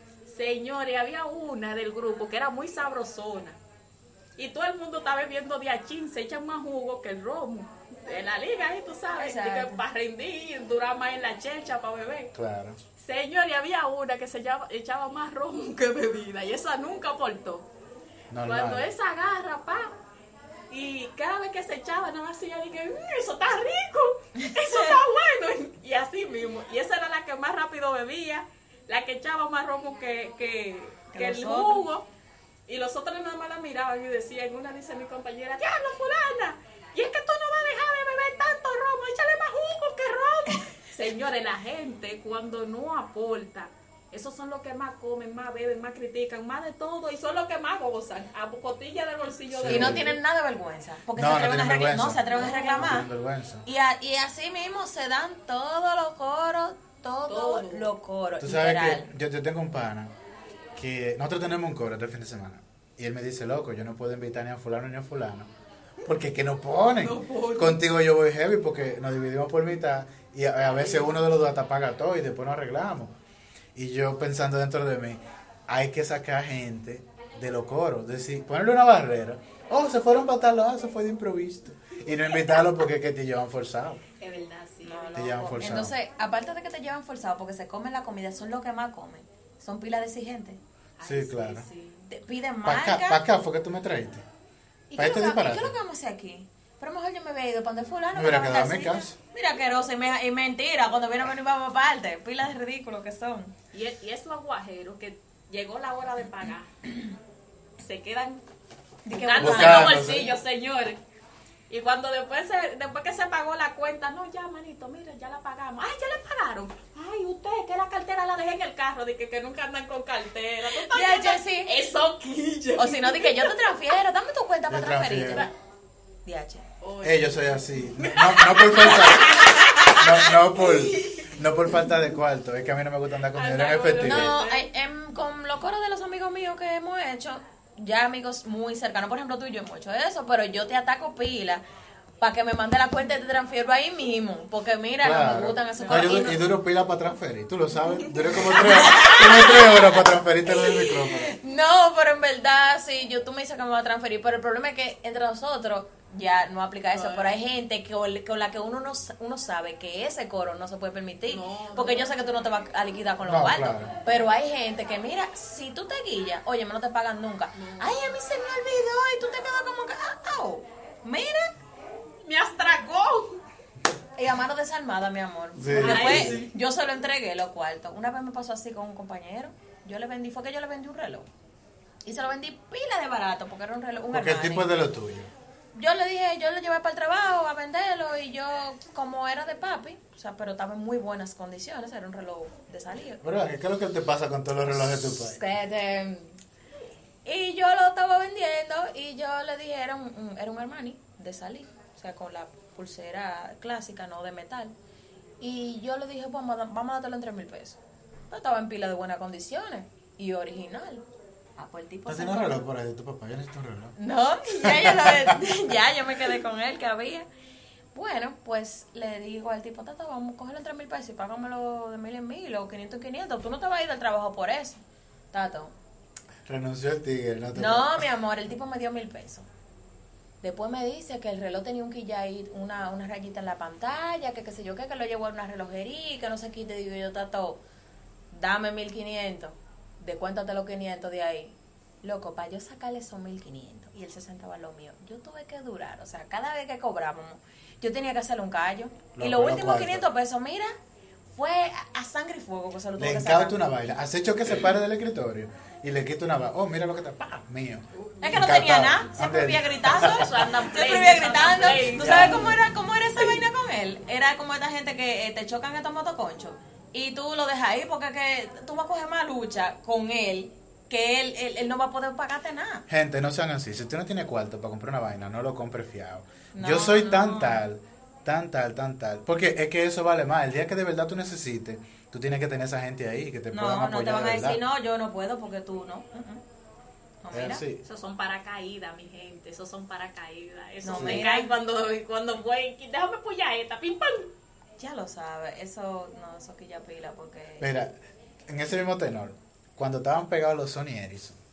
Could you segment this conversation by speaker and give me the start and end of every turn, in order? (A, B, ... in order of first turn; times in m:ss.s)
0:00.3-0:03.6 A
0:04.4-0:12.3 A
0:09.1-0:09.8 B
0:12.3-0:12.8 C
0:13.0-0:17.7 A
0:18.3-0:18.9 C
0:18.4-0:19.9 A
0:20.7-0:32.0 A
0:24.4-0:24.9 B
0:31.1-0:31.8 B
0:32.7-0:50.1 A
0:49.5-0:50.2 C
0:49.7-0:53.1 B
0:51.2-0:53.6 C
0:52.3-0:52.9 A
0:53.6-0:59.1 B
0:57.3-0:57.9 A
0:58.4-1:00.1 C
1:00.7-1:05.5 C
1:06.0-1:13.1 C
1:06.9-1:07.8 A
1:13.7-1:24.0 C
1:24.2-1:25.1 A
1:24.8-1:30.6 B
1:25.1-1:25.9 C
1:31.0-1:32.1 A
1:31.0-1:31.6 C
1:32.1-1:33.2 B
1:32.6-1:34.2 C
1:34.9-1:43.5 B
1:35.0-1:35.7 C
1:38.1-1:39.2 C
1:43.7-1:46.9 A
1:47.8-1:48.4 A
1:49.0-1:50.0 B
1:49.1-1:51.0 A
1:49.4-1:50.4 C
1:51.7-2:03.5 A
2:00.7-2:01.8 B
2:02.8-2:05.5 B
2:04.7-2:05.5 C
2:06.2-2:06.6 B
2:06.8-2:11.3 A
2:07.0-2:09.4 C
2:09.7-2:10.0 B
2:09.9-2:14.3 C
2:13.3-2:14.6 A
2:14.0-2:21.6 B
2:22.2-2:26.4 B
2:25.0-2:31.3 C
2:25.8-2:26.2 A
2:28.5-2:29.9 B
2:30.4-2:51.5 B
2:36.9-2:37.3 A
2:41.3-2:42.1 A
2:43.2-2:43.9 C
2:47.6-2:48.0 A
2:52.2-2:53.4 A
2:54.2-3:01.3 B
2:55.6-2:56.4 C
2:55.8-2:56.5 A
3:02.0-3:04.7 B
3:04.1-3:05.3 C
3:05.7-3:13.2 B
3:13.2-3:15.4 C
3:15.0-3:16.4 B
3:17.2-3:24.7 B
3:25.4-3:27.8 B
3:28.3-3:31.0 B
3:31.6-3:32.6 B
3:32.1-3:33.9 C
3:34.0-3:37.3 B
3:34.6-3:35.4 C
3:37.9-3:45.7 B
3:46.4-3:48.1 C
3:47.5-3:49.5 B
3:50.4-3:57.6 B
3:58.3-4:10.7 B
4:09.2-4:10.0 C
4:11.3-4:13.7 B
4:13.0-4:20.5 C
4:17.9-4:18.2 A
4:18.2-4:32.8 B
4:19.9-4:22.6 A
4:21.8-4:22.5 C
4:32.9-4:44.6 C
4:36.5-4:37.6 B
4:43.5-4:46.4 B
4:47.2-4:47.6 B
4:47.3-4:47.8 C
4:47.8-4:54.3 A
4:50.8-4:51.5 B
4:50.9-4:51.2 C
4:54.8-4:57.7 B
4:57.6-5:01.4 C